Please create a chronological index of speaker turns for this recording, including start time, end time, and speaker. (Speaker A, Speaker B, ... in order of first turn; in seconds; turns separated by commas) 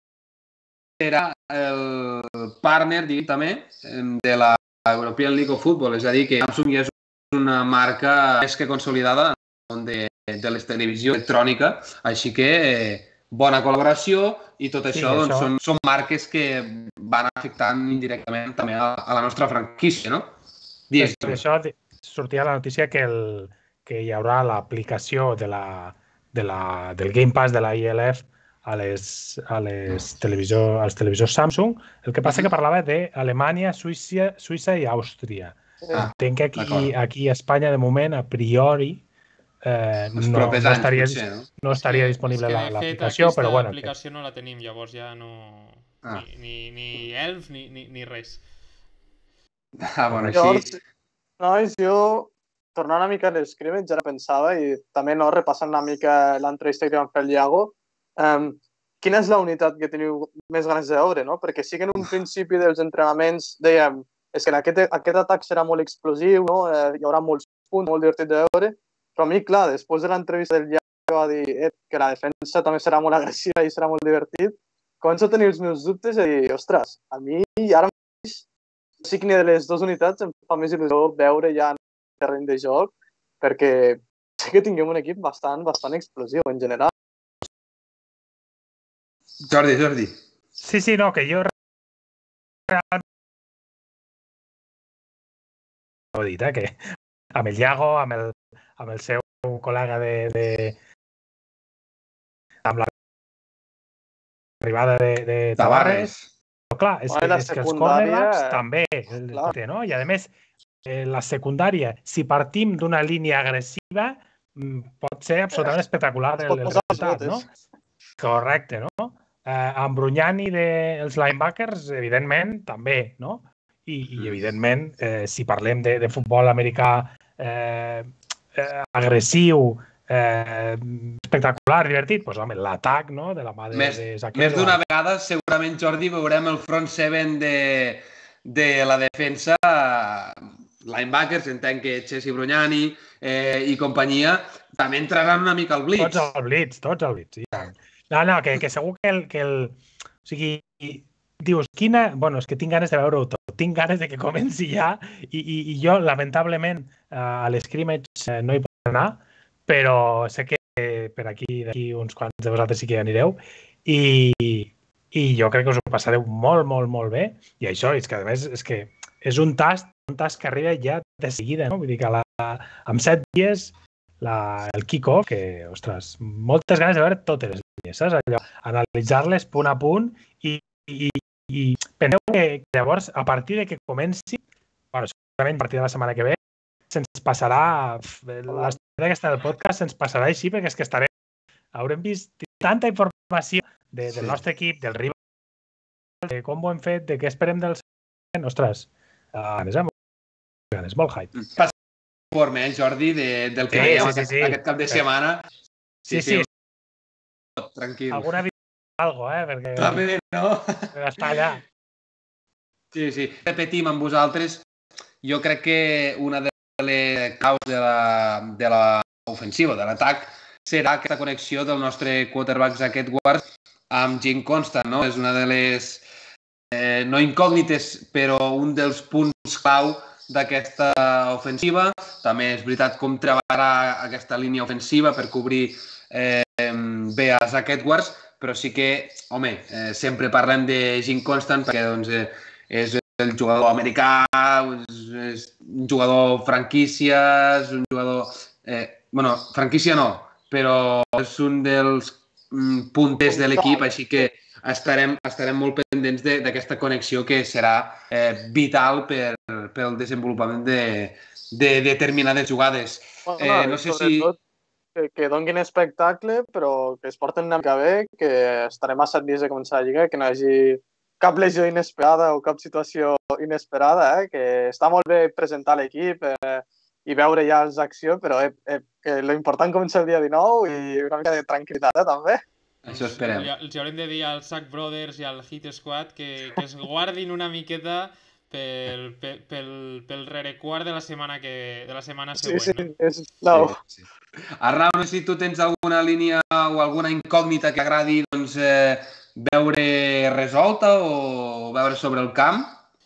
Speaker A: 1.0-20.3, Speaker B: 14.9-15.5, Speaker A: 20.9-21.4, Speaker B: 21.0-39.0, Speaker A: 32.2-32.5, Speaker A: 35.9-36.9, Speaker B: 39.6-43.9, Speaker A: 40.2-41.5, Speaker C: 41.7-48.4, Speaker A: 49.8-50.7, Speaker B: 50.1-50.4, Speaker D: 50.3-50.8, Speaker D: 51.4-78.4, Speaker D: 79.0-86.9, Speaker A: 89.5-90.2, Speaker B: 90.6-91.5, Speaker B: 92.7-93.0, Speaker B: 96.1-96.8, Speaker B: 97.3-100.8, Speaker B: 102.6-102.9, Speaker B: 104.6-106.1, Speaker A: 105.6-106.3, Speaker B: 106.7-110.3, Speaker D: 107.1-108.6, Speaker B: 110.8-117.5, Speaker D: 116.5-117.5, Speaker B: 118.2-134.8, Speaker A: 133.7-146.3, Speaker B: 146.0-184.4, Speaker B: 184.9-186.4, Speaker B: 186.9-191.1, Speaker D: 188.5-188.7, Speaker B: 191.7-195.2, Speaker B: 196.2-197.8, Speaker B: 198.3-199.9, Speaker B: 200.7-201.3, Speaker A: 201.4-201.7, Speaker A: 202.3-205.4, Speaker B: 203.7-205.0, Speaker B: 206.1-206.5, Speaker A: 206.1-206.5, Speaker A: 207.6-208.3, Speaker B: 208.1-210.1, Speaker A: 209.8-210.9, Speaker B: 210.9-211.6, Speaker A: 212.9-214.6, Speaker A: 215.2-226.0, Speaker A: 226.7-264.3, Speaker D: 253.3-254.3, Speaker D: 263.3-264.4, Speaker D: 264.9-282.4, Speaker A: 282.9-283.5, Speaker C: 282.9-292.9, Speaker D: 292.4-293.7, Speaker A: 293.5-294.1, Speaker A: 294.6-302.8